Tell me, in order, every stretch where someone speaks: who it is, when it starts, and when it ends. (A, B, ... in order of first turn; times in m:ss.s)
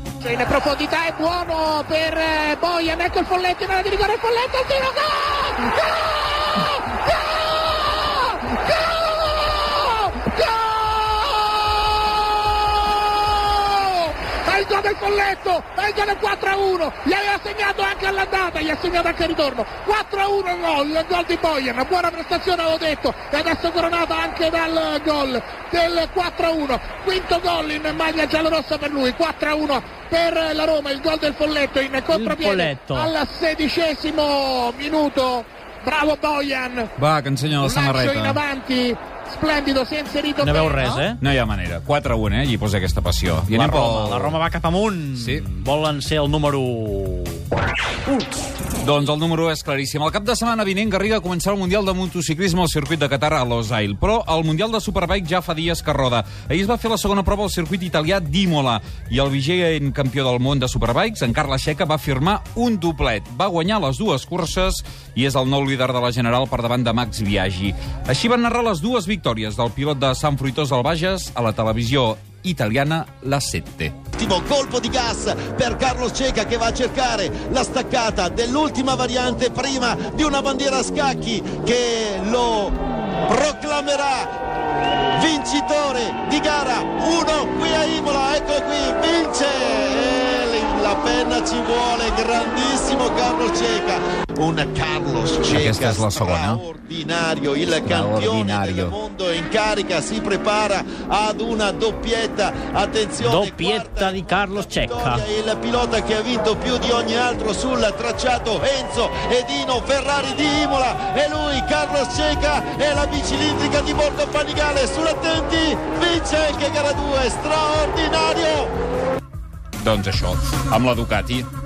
0:00.2-0:36.9 A
0:32.1-0:33.1 B
0:37.0-0:37.6 C
0:37.6-0:40.9 A
0:40.4-0:41.2 B
0:41.2-0:44.4 C
0:43.5-0:47.4 B
0:45.2-0:45.4 C
0:48.8-1:14.0 C
1:14.2-1:24.3 D
1:25.1-1:58.7 D
1:35.5-1:36.6 C
1:37.8-1:38.9 C
1:43.2-1:45.2 B
1:59.8-2:01.5 C